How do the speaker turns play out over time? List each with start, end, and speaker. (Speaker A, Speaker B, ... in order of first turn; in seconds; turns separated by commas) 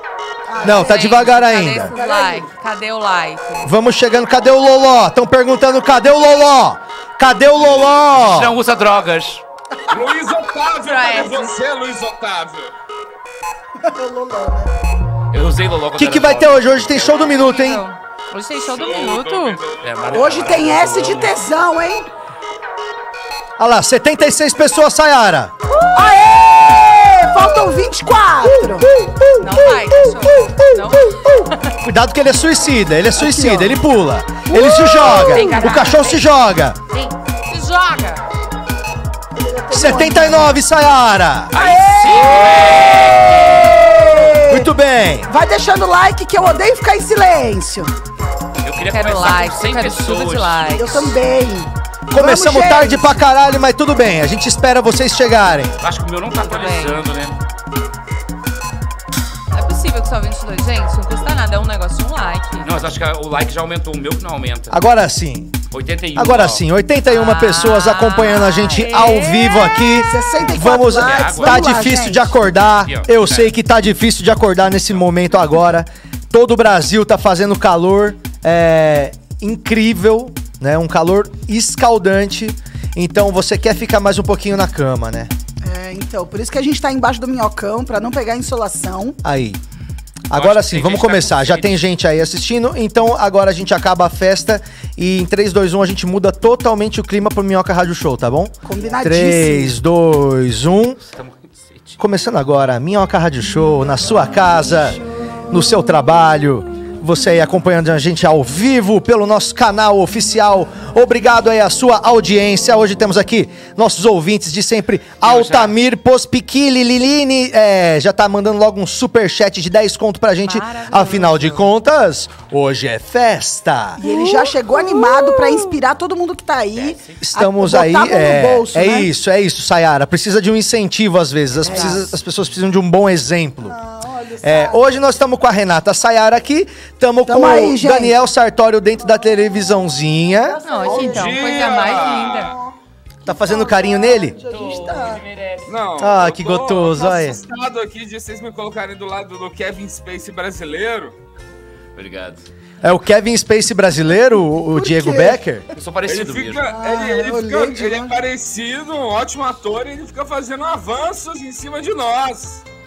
Speaker A: 0.5-1.1, Speaker B: 0.6-1.9, Speaker C: 0.7-3.8, Speaker A: 1.9-2.5, Speaker B: 3.6-8.5, Speaker D: 8.1-9.4, Speaker E: 9.9-12.7, Speaker C: 10.8-11.6, Speaker A: 13.8-14.7, Speaker D: 15.3-17.4, Speaker B: 16.0-17.9, Speaker C: 17.3-19.6, Speaker E: 18.6-19.9, Speaker D: 19.8-21.4, Speaker A: 20.1-22.1, Speaker B: 23.6-25.5, Speaker A: 25.9-28.9, Speaker C: 29.4-31.8, Speaker B: 31.8-36.8, Speaker A: 33.2-33.8, Speaker A: 34.5-35.3, Speaker C: 35.2-36.2, Speaker D: 35.3-36.2, Speaker C: 36.9-38.2, Speaker A: 39.4-40.6, Speaker B: 39.7-41.5, Speaker D: 41.5-43.8, Speaker A: 41.6-44.7, Speaker B: 44.5-45.3, Speaker A: 45.3-47.9, Speaker D: 48.6-50.8, Speaker C: 48.9-51.2, Speaker A: 50.8-53.2, Speaker B: 52.1-55.8, Speaker D: 55.8-57.4, Speaker C: 56.4-57.0, Speaker C: 59.5-62.7, Speaker D: 62.6-64.8, Speaker B: 64.7-65.6, Speaker D: 65.7-66.6, Speaker B: 66.2-85.3, Speaker C: 67.1-70.0, Speaker A: 70.1-72.3, Speaker D: 71.0-71.8, Speaker D: 72.8-73.5, Speaker A: 85.6-89.2, Speaker B: 89.2-89.6, Speaker B: 90.3-101.0, Speaker D: 90.3-91.8, Speaker A: 98.7-99.8, Speaker D: 101.0-102.0, Speaker B: 102.0-124.0, Speaker D: 115.2-115.7, Speaker C: 120.5-121.7, Speaker A: 124.0-129.1, Speaker B: 125.0-125.5, Speaker D: 126.7-127.2, Speaker B: 127.2-133.8, Speaker A: 131.6-132.1, Speaker C: 131.7-132.0, Speaker A: 133.6-134.9, Speaker B: 134.4-140.6, Speaker A: 137.3-138.2, Speaker A: 140.4-142.7, Speaker C: 140.7-142.5, Speaker E: 140.9-142.6, Speaker B: 143.3-144.4, Speaker A: 143.3-145.2, Speaker D: 144.5-145.7, Speaker E: 145.7-151.1, Speaker B: 146.0-147.4, Speaker D: 152.0-152.4, Speaker B: 152.8-155.7, Speaker A: 154.7-155.4, Speaker D: 155.8-156.7, Speaker E: 156.1-162.6, Speaker A: 156.7-158.2